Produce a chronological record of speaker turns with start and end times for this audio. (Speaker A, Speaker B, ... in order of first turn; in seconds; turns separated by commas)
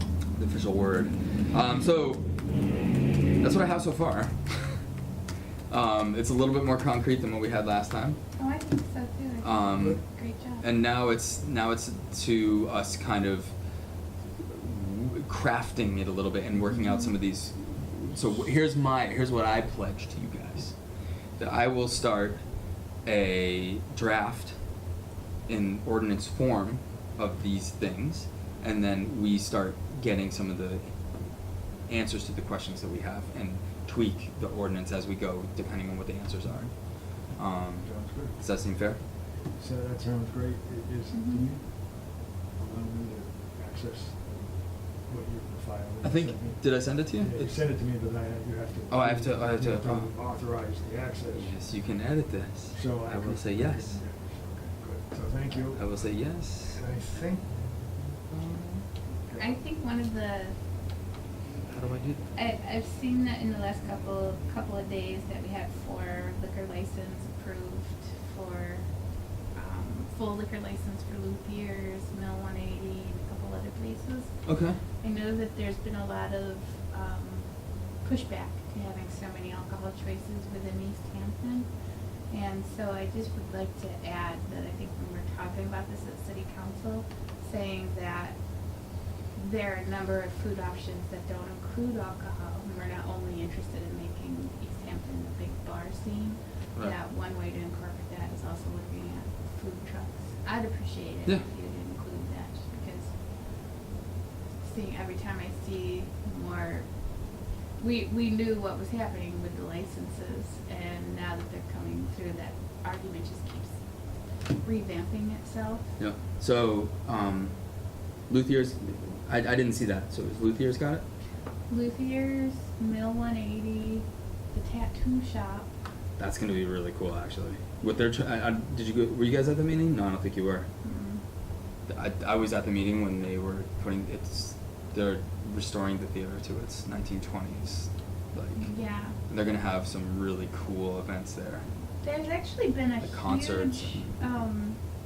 Speaker A: 0.3-2.3, Speaker A: 3.4-4.4, Speaker A: 5.7-8.2, Speaker B: 8.3-10.7, Speaker A: 9.4-10.1, Speaker A: 10.6-13.5, Speaker A: 14.4-20.8, Speaker B: 16.7-17.1, Speaker A: 21.4-22.4, Speaker A: 23.0-24.6, Speaker A: 25.5-39.0, Speaker C: 37.7-38.4, Speaker C: 39.5-51.6, Speaker B: 41.1-41.5, Speaker A: 46.0-47.6, Speaker A: 48.9-50.1, Speaker A: 51.3-54.0, Speaker C: 52.7-56.0, Speaker A: 55.7-56.8, Speaker C: 56.6-57.5, Speaker A: 58.3-58.9, Speaker C: 59.2-59.6, Speaker B: 59.4-60.6, Speaker A: 61.7-62.2, Speaker B: 62.4-68.9, Speaker B: 69.5-81.7, Speaker A: 74.5-74.8, Speaker B: 82.3-88.7, Speaker B: 89.3-103.2, Speaker B: 104.6-107.0, Speaker B: 107.8-113.8, Speaker B: 114.4-115.9, Speaker A: 116.0-121.0, Speaker B: 121.7-125.7, Speaker A: 126.2-130.7, Speaker B: 130.8-131.2, Speaker A: 131.9-141.7, Speaker B: 138.6-139.2, Speaker B: 142.0-144.8, Speaker A: 143.0-144.1